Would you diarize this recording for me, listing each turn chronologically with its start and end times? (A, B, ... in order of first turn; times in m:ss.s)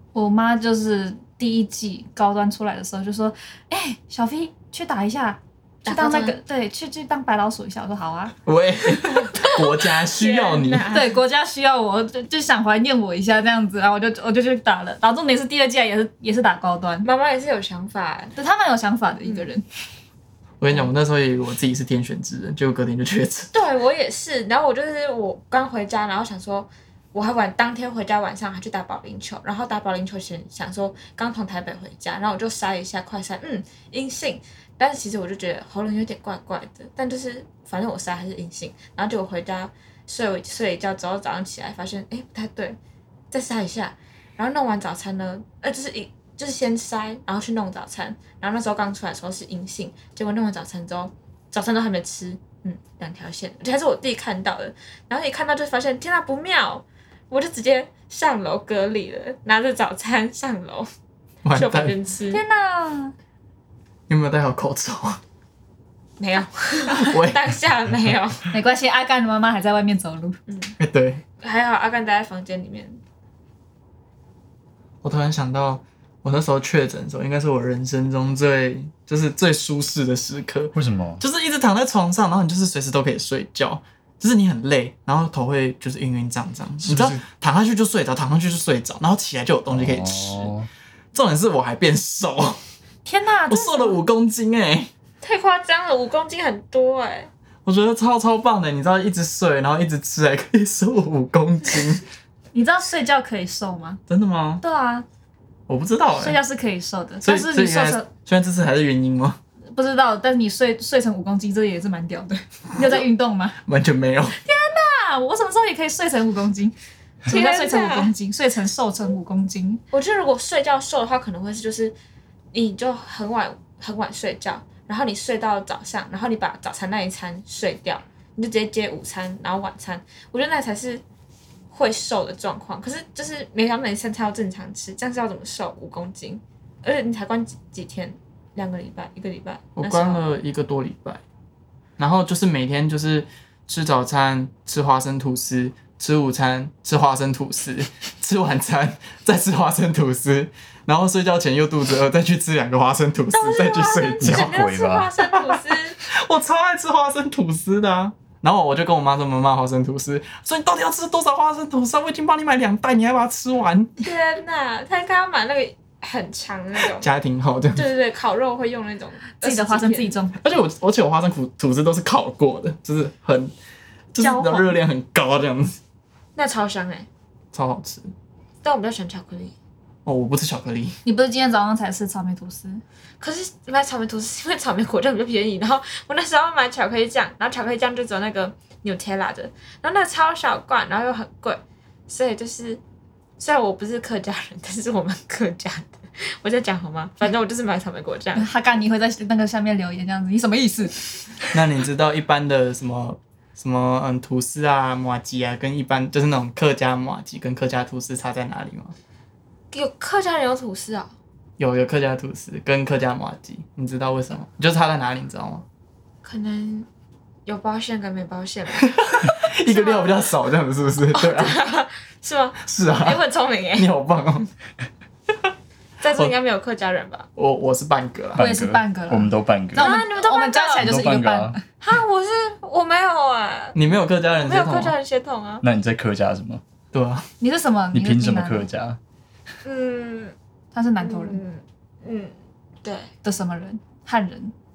0:00.1-0:08.3 A
0:05.8-0:06.4 B
0:08.4-0:10.9 C
0:09.1-0:11.2 B
0:10.9-0:17.1 A
0:17.0-0:18.3 B
0:18.4-0:19.6 A
0:20.6-0:23.5 C
0:23.5-0:42.8 B
0:43.3-1:00.9 B
1:01.4-1:01.9 C
1:01.5-1:02.4 B
1:02.3-1:03.1 A
1:04.1-1:05.2 C
1:06.2-1:08.5 B
1:06.9-1:07.5 C
1:08.5-1:10.4 A
1:10.5-1:10.7 B
1:10.8-1:11.2 C
1:11.4-1:13.0 B
1:15.0-1:30.5 C
1:20.7-1:21.2 D
1:26.8-1:27.2 D
1:29.7-1:30.7 D
1:31.1-1:32.6 C
1:33.0-1:34.0 A
1:33.5-1:34.9 C
1:35.2-1:37.3 B
1:37.6-1:42.0 C
1:42.5-1:44.0 A
1:44.1-1:44.6 C
1:44.6-1:45.0 A
1:45.7-1:46.4 C
1:46.2-1:48.1 A
1:47.2-1:49.4 C
1:49.7-1:53.6 A
1:53.6-1:54.4 C
1:54.4-1:56.7 A
1:57.2-1:59.8 A
1:57.3-1:58.1 B
1:59.9-2:02.0 B
2:02.5-2:11.0 B
2:11.7-2:20.2 B
2:19.8-2:21.2 C
2:22.0-2:34.6 C
2:33.3-2:36.0 B
2:34.2-2:35.1 D
2:35.2-2:43.9 C
2:44.0-2:47.1 B
2:46.9-2:47.8 C
2:47.7-2:50.1 B
2:49.4-2:50.4 A
2:50.4-2:53.5 C
2:54.1-2:55.7 C
2:54.2-2:54.7 A
2:56.4-2:57.1 B
2:57.5-2:58.1 C
2:58.6-2:59.5 B
3:00.0-3:01.0 C
3:01.0-3:02.8 A
3:03.2-3:12.8 B
3:13.4-3:18.5 B
3:18.3-3:21.2 A
3:21.5-3:28.9 C
3:29.7-3:31.1 B
3:31.6-3:35.6 C
3:36.2-3:36.9 B
3:37.4-3:39.0 B
3:38.9-3:41.7 C
3:39.6-3:40.1 B
3:41.2-3:43.9 B
3:42.7-3:43.2 C
3:43.8-3:44.5 C
3:46.0-3:47.3 B
3:47.4-3:48.4 C
3:48.3-3:50.0 D
3:48.4-3:51.6 A
3:49.8-3:50.8 B
3:50.8-3:51.6 D
3:51.8-3:53.8 B
3:53.7-3:54.9 C
3:54.4-3:55.6 B
3:55.6-3:56.6 D
3:56.9-3:57.3 C
3:57.4-3:58.7 A
3:57.9-3:59.0 D
3:59.6-4:00.3 B
4:00.7-4:01.4 A
4:01.0-4:03.1 B
4:03.2-4:04.5 A